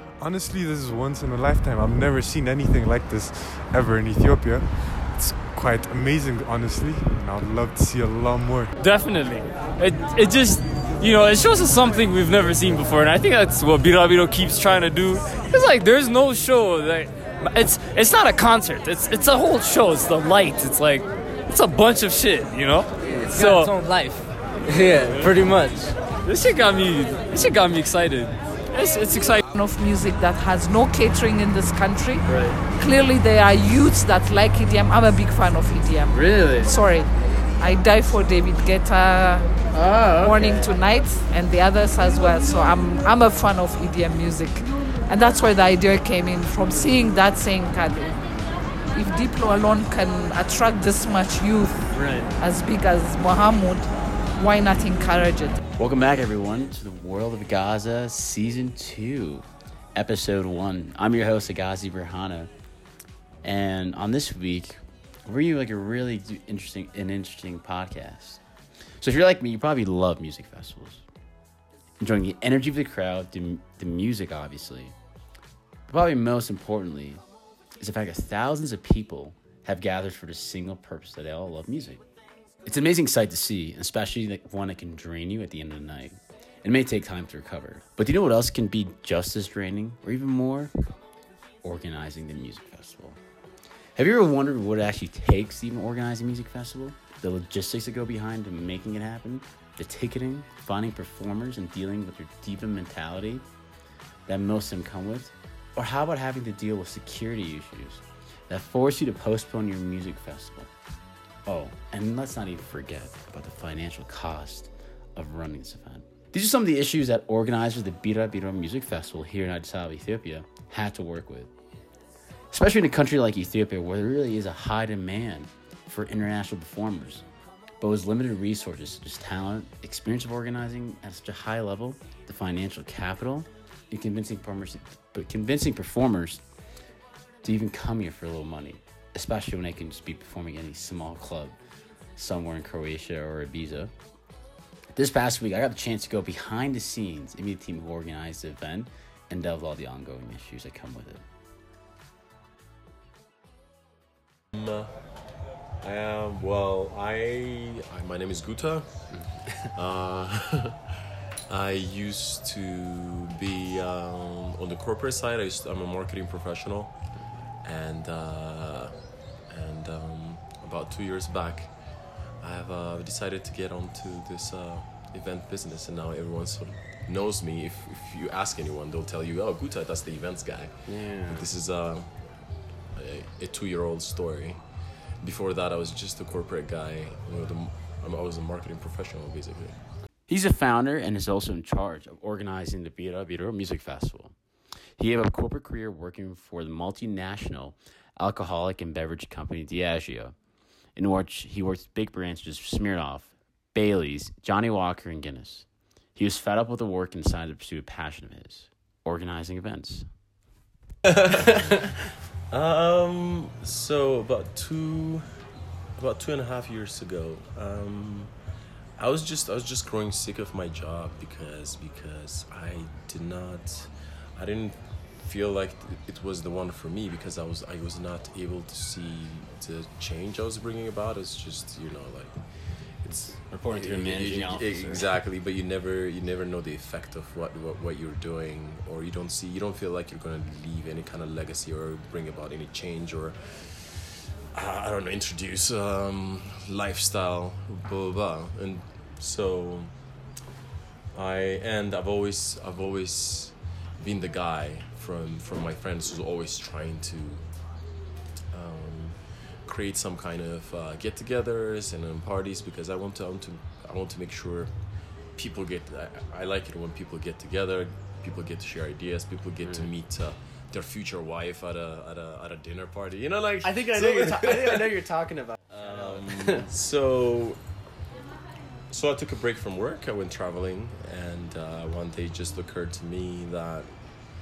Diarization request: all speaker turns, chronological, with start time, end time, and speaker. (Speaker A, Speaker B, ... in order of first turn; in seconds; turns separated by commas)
Speaker A: 0.2-8.7, Speaker B: 8.8-23.7, Speaker C: 23.0-26.0, Speaker B: 26.2-29.4, Speaker D: 29.5-32.3, Speaker E: 32.3-32.6, Speaker D: 32.8-39.5, Speaker E: 36.1-36.7, Speaker E: 39.7-40.7, Speaker D: 40.1-48.2, Speaker D: 48.9-51.9, Speaker E: 51.9-52.3, Speaker D: 52.4-55.6, Speaker E: 55.8-62.5, Speaker E: 63.4-68.4, Speaker E: 69.0-71.0, Speaker E: 72.0-75.0, Speaker E: 75.9-77.2, Speaker E: 77.8-82.0, Speaker E: 82.7-90.7, Speaker E: 91.6-93.2, Speaker E: 94.0-103.5, Speaker E: 104.3-110.7, Speaker E: 111.5-121.5, Speaker E: 122.5-127.2, Speaker E: 127.8-136.4, Speaker E: 137.4-141.6, Speaker E: 142.2-143.9, Speaker E: 144.9-151.2, Speaker F: 154.5-154.9, Speaker F: 155.8-160.8, Speaker E: 159.1-159.7, Speaker F: 161.5-189.8, Speaker E: 180.9-181.5, Speaker E: 190.3-194.3, Speaker E: 195.0-200.3, Speaker E: 200.9-210.1, Speaker E: 211.3-211.7, Speaker F: 212.5-215.4, Speaker F: 216.0-218.3, Speaker F: 219.0-249.9, Speaker E: 233.5-235.1, Speaker F: 251.1-257.4, Speaker F: 258.5-264.7, Speaker F: 265.3-274.9, Speaker E: 273.6-276.7, Speaker F: 275.7-277.6, Speaker F: 278.9-283.9